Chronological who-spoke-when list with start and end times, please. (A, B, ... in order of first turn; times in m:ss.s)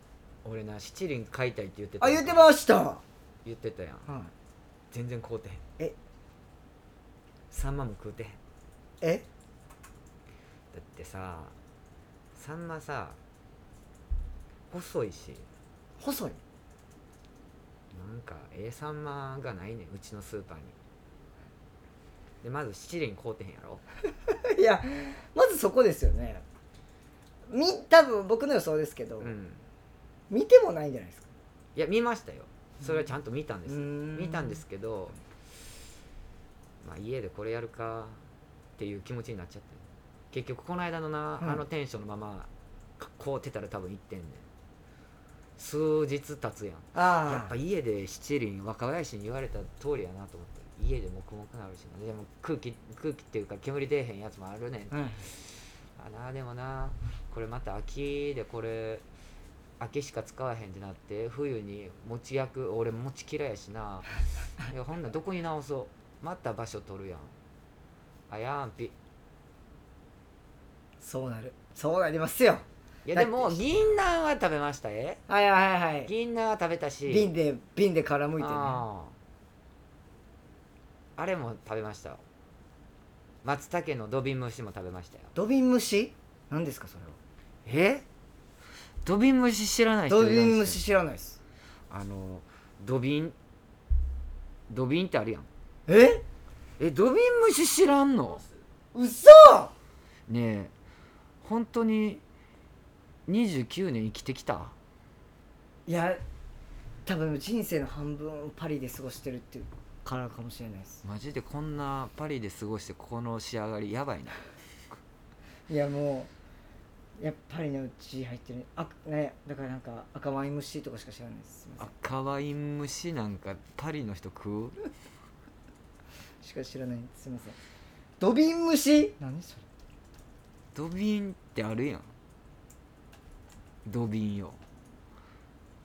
0:00.4-0:02.4 A
0:02.0-0:03.0 B
0:03.4-0:04.1 A
0:04.1-0:04.3 B
0:04.9-0:05.6 A
0:07.5-0:08.4 A
0:09.0-0:09.2 B
0:10.7-0:11.5 A
0:12.3-0:13.2 A
0:14.7-0:15.5 A
0:16.0-0:16.4 B
0:17.9-0:20.7 A
0:22.4-0:23.8 A
0:24.3-0:26.4 B
0:27.5-0:29.3 B
0:29.2-0:29.6 A
0:30.3-0:31.3 B
0:31.7-0:35.2 A
0:33.7-0:34.6 B
0:36.8-0:38.2 A
0:38.8-0:44.4 A
0:45.6-0:54.9 A
0:46.9-0:47.5 B
0:54.9-0:55.2 B
0:56.0-0:59.0 A
0:59.8-1:04.1 A
1:04.6-1:07.3 A
1:08.3-1:08.9 A
1:11.0-1:13.6 B
1:13.0-1:15.2 A
1:15.3-1:16.1 B
1:16.0-1:17.3 A
1:17.1-1:18.8 B
1:18.4-1:19.1 A
1:21.2-1:22.2 A
1:23.4-1:25.3 A
1:25.3-1:27.2 B
1:27.6-1:28.0 A
1:29.0-1:30.8 A
1:30.1-1:31.4 B
1:31.9-1:33.3 A
1:34.7-1:35.5 A
1:35.9-1:36.2 B
1:36.8-1:38.5 A
1:38.9-1:39.7 B
1:40.3-1:40.7 A
1:41.4-1:42.2 A
1:43.3-1:44.7 A
1:45.9-1:46.2 B
1:47.0-1:51.0 B
1:51.0-1:54.5 A
1:55.7-1:56.3 B
1:57.2-2:01.9 B
2:01.8-2:04.8 A
2:06.4-2:07.6 B
2:08.2-2:09.6 B
2:10.7-2:12.1 A
2:13.8-2:14.6 A